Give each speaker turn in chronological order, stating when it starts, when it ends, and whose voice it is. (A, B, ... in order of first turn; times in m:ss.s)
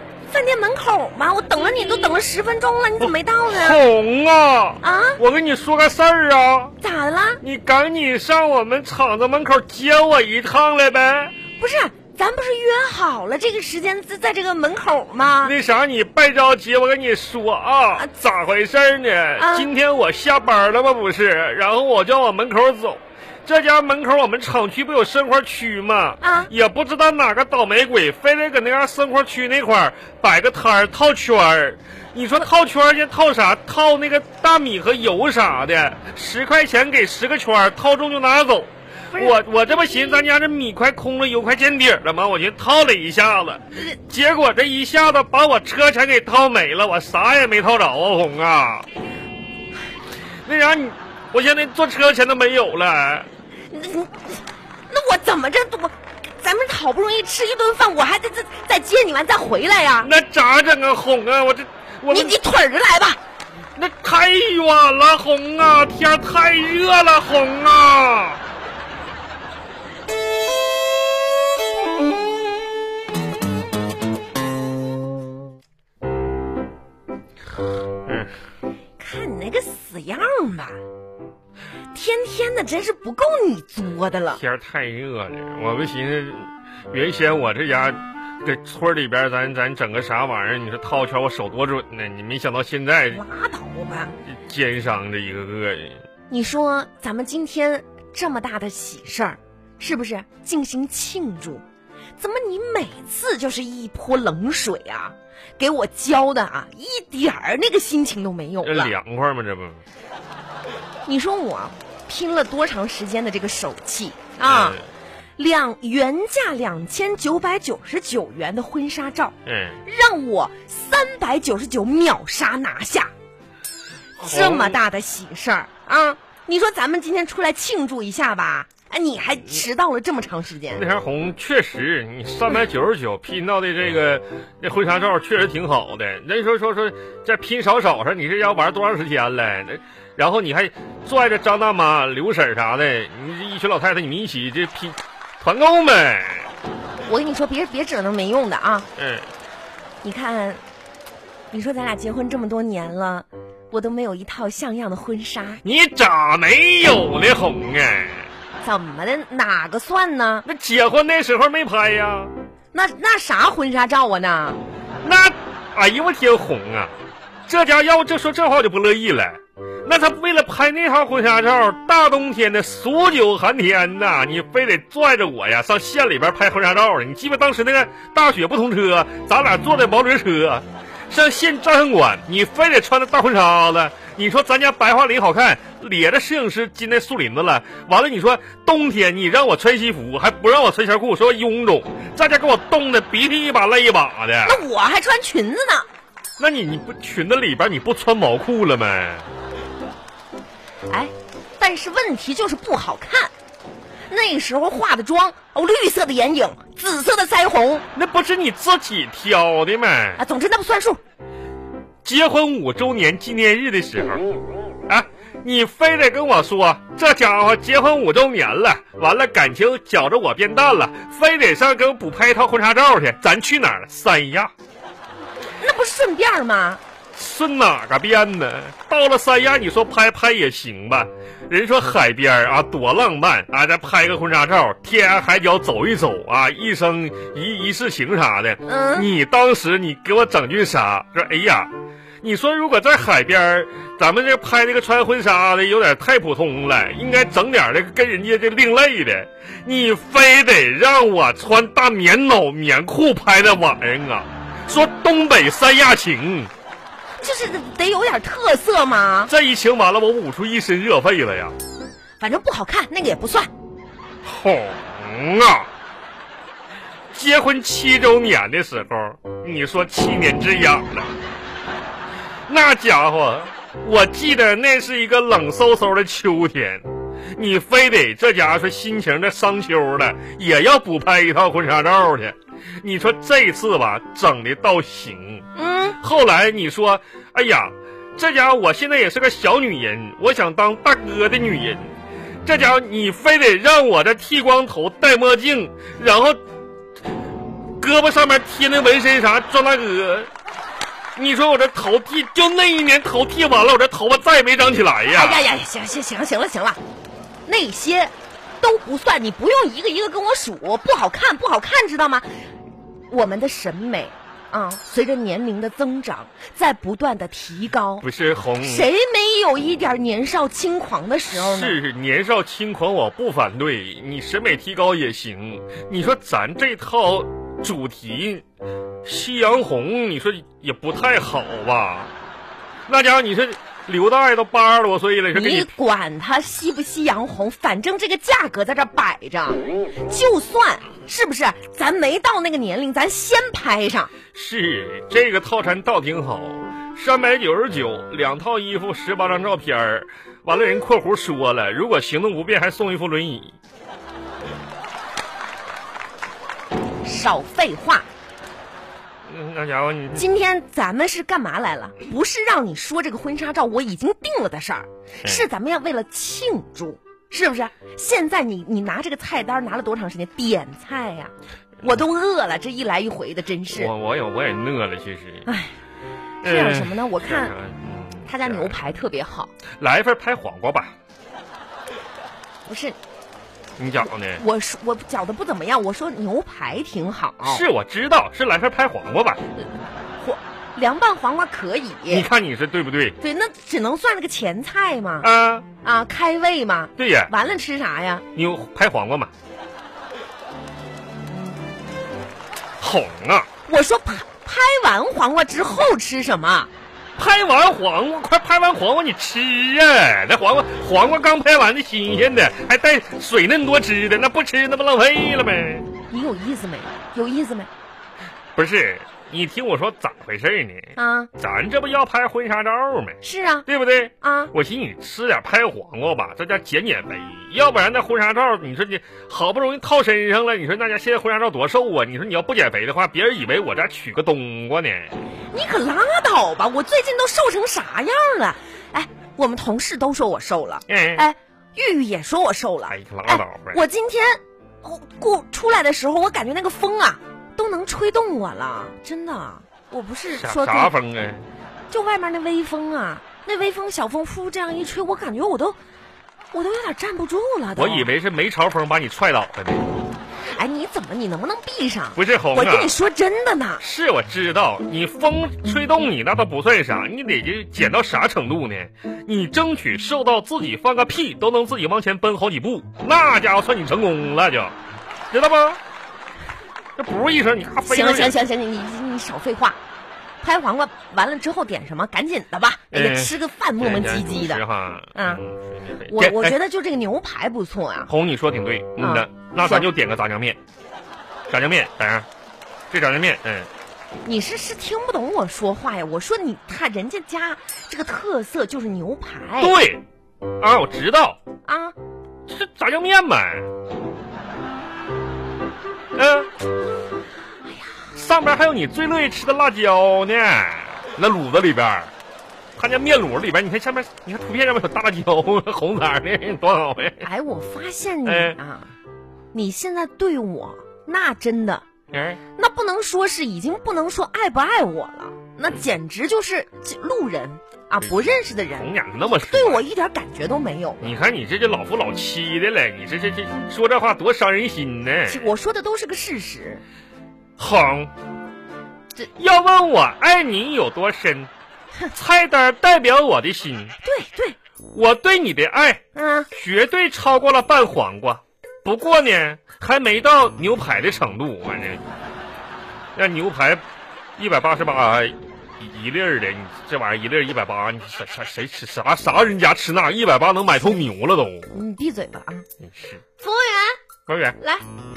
0:00.3-0:03.8 A
0:03.0-0:06.8 B
0:04.8-0:05.2 A
0:06.8-0:07.4 A
0:07.4-0:11.3 B
0:11.6-0:15.5 A
0:15.4-0:48.9 B
0:19.4-0:19.7 A
0:26.2-0:26.5 A
0:50.4-0:53.3 B
0:53.7-1:00.1 A
1:00.0-1:02.4 B
1:02.1-1:03.2 A
1:03.8-1:08.4 B
1:18.0-1:18.3 B
1:19.0-1:20.8 A
1:21.9-1:24.4 A
1:24.4-1:33.2 B
1:33.1-1:34.1 A
1:34.3-1:36.0 B
1:36.3-1:41.6 A
1:42.2-1:48.9 A
1:48.6-1:49.8 B
1:51.0-1:54.8 A
1:54.4-1:54.9 B
1:55.4-2:03.1 A
1:59.4-1:59.8 B
2:04.2-2:10.8 A
2:04.2-2:04.8 B
2:10.7-2:26.5 B
2:27.0-2:28.9 A
2:29.0-2:29.3 B
2:30.0-2:30.6 A
2:31.5-2:35.6 A
2:35.6-2:38.3 B
2:38.6-2:40.4 A
2:40.4-2:42.3 B
2:42.7-2:44.6 A
2:45.0-2:46.9 B
2:47.5-3:14.6 B
3:14.4-3:15.9 A
3:16.4-3:19.3 B
3:20.9-3:23.3 A
3:24.1-3:27.8 A
3:27.9-3:30.2 B
3:30.2-3:31.0 A
3:32.0-3:34.3 B
3:34.9-3:44.5 B
3:45.6-3:46.8 A
3:47.1-4:01.7 B
3:58.6-3:59.1 A
4:02.2-4:16.5 B
4:17.2-4:19.3 A
4:19.3-4:21.5 B
4:22.2-4:23.5 A
4:24.2-4:25.7 B
4:27.1-4:31.1 B
4:32.5-4:51.9 B
4:45.5-4:46.0 A
4:52.4-4:56.4 B
4:57.8-5:00.3 B
5:01.2-5:05.5 B
5:05.0-5:06.8 A
5:07.4-5:12.3 A
5:13.1-5:18.0 A
5:18.0-5:18.9 B
5:18.6-5:21.8 A
5:21.3-5:28.4 B
5:29.0-5:32.1 B
5:32.9-5:35.7 B
5:35.3-5:44.1 A
5:44.3-5:53.6 B
5:57.0-5:58.0 A
5:59.2-6:00.3 B
6:00.1-6:13.9 A
6:13.7-6:15.5 B
6:15.4-6:15.8 A
6:16.4-6:17.5 A
6:16.4-6:19.0 B
6:18.2-6:19.5 A
6:19.8-6:20.9 B
6:22.6-6:23.0 A
6:23.8-6:24.4 B
6:24.3-6:27.6 A
6:27.4-6:29.4 B
6:30.2-6:32.3 A
6:32.1-6:33.2 B
6:33.2-6:35.3 A
6:35.2-6:35.6 B
6:35.8-6:38.2 A
6:37.0-6:37.3 B
6:38.3-6:39.3 B
6:41.3-6:41.6 A
6:42.8-6:43.5 B
6:43.7-6:46.7 A
6:47.2-6:55.9 B
6:56.1-6:57.7 A
6:58.6-7:15.1 B
7:01.0-7:01.3 A
7:03.2-7:03.7 A
7:04.2-7:04.5 A
7:15.5-7:30.9 A
7:20.9-7:21.2 B
7:22.9-7:23.8 B
7:30.3-7:31.4 B
7:31.9-7:35.8 A
7:36.5-7:38.1 A
7:37.8-7:39.9 B
7:40.4-7:43.8 A
7:42.2-7:42.9 B
7:43.8-7:54.7 B
7:55.3-7:55.8 B
7:57.0-7:58.4 B
7:57.8-7:59.8 A
8:00.4-8:04.6 A
8:02.9-8:06.6 B
8:05.1-8:05.4 A
8:06.0-8:08.1 A
8:08.1-8:10.6 B
8:09.0-8:09.9 A
8:11.5-8:12.3 B
8:12.9-8:13.7 B
8:14.2-8:19.8 A
8:19.6-8:20.0 B
8:20.6-8:21.4 B
8:21.6-8:21.9 A
8:22.5-8:23.7 B
8:26.1-8:26.5 B
8:28.1-8:32.1 B
8:32.8-8:37.2 B
8:37.2-8:38.9 A
8:38.2-8:38.6 B
8:39.5-8:41.8 A
8:42.1-8:42.4 B
8:42.6-8:51.0 A
8:48.8-8:49.8 B
8:51.0-8:55.5 B
8:55.2-8:56.8 A
8:57.6-8:58.1 B
8:59.4-9:01.5 B
9:02.1-9:03.9 B
9:04.0-9:04.6 A
9:04.9-9:06.0 B
9:06.1-9:06.5 A
9:06.5-9:12.0 B
9:13.1-9:13.8 B
9:14.4-9:21.7 B
9:21.7-9:22.6 A
9:22.8-9:23.2 B
9:23.4-9:24.0 A
9:24.3-9:24.6 B
9:24.6-9:24.8 A